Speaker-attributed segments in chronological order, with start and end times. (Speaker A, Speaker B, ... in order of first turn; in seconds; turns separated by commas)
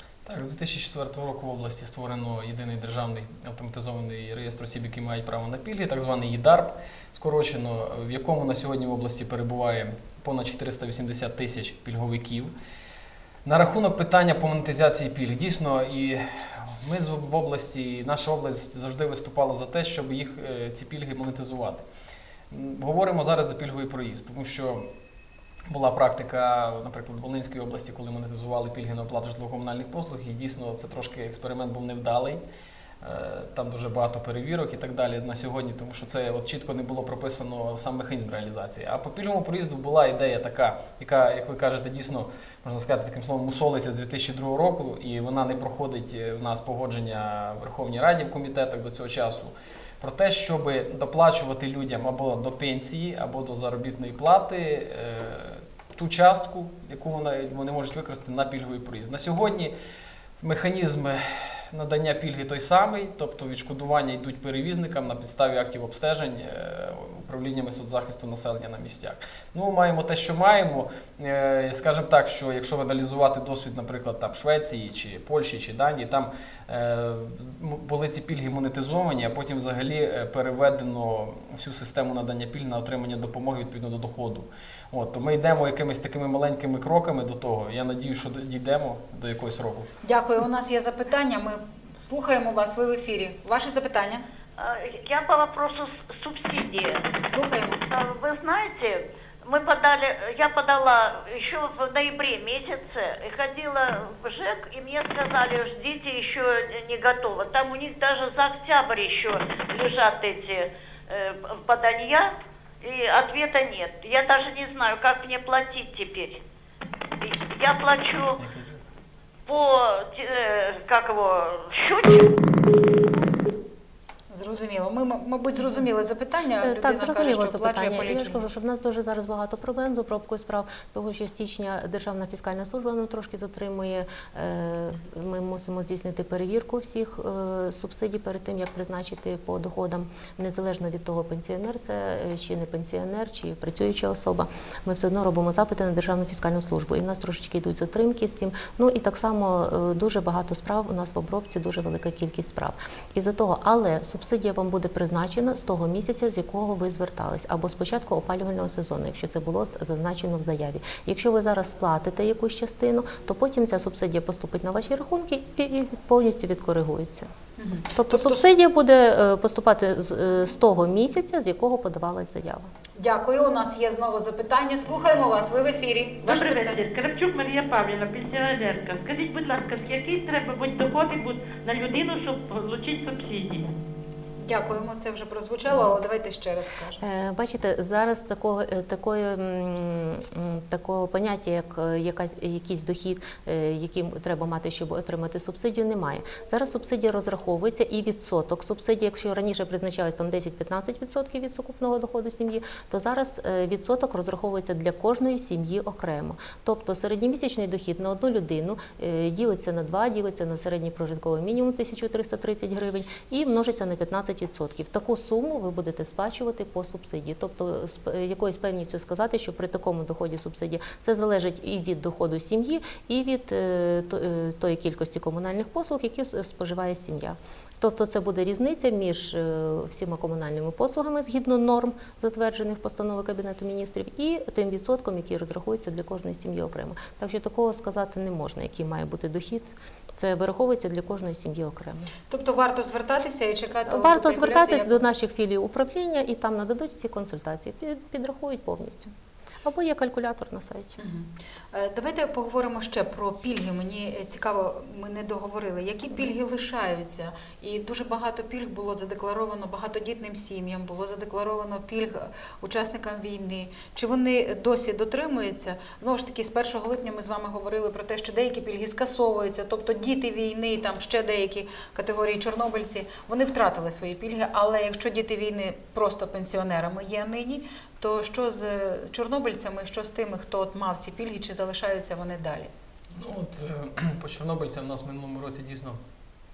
Speaker A: 0.3-12.5, Speaker A: 13.4-21.9, Speaker A: 22.5-24.9, Speaker A: 25.7-32.4, Speaker A: 33.0-59.7, Speaker A: 60.4-89.9, Speaker B: 90.0-94.3, Speaker C: 94.6-97.1, Speaker B: 97.2-97.8, Speaker C: 97.8-116.4, Speaker C: 117.2-118.4, Speaker A: 118.4-118.8, Speaker C: 119.5-122.8, Speaker B: 124.3-128.4, Speaker D: 126.6-167.3, Speaker B: 167.6-168.5, Speaker D: 167.9-172.7, Speaker B: 173.0-176.8, Speaker E: 176.2-183.8, Speaker B: 184.4-187.0, Speaker D: 187.0-242.1, Speaker B: 242.3-245.0, Speaker D: 243.9-249.1, Speaker D: 249.6-251.0, Speaker B: 251.0-282.7, Speaker A: 283.1-286.0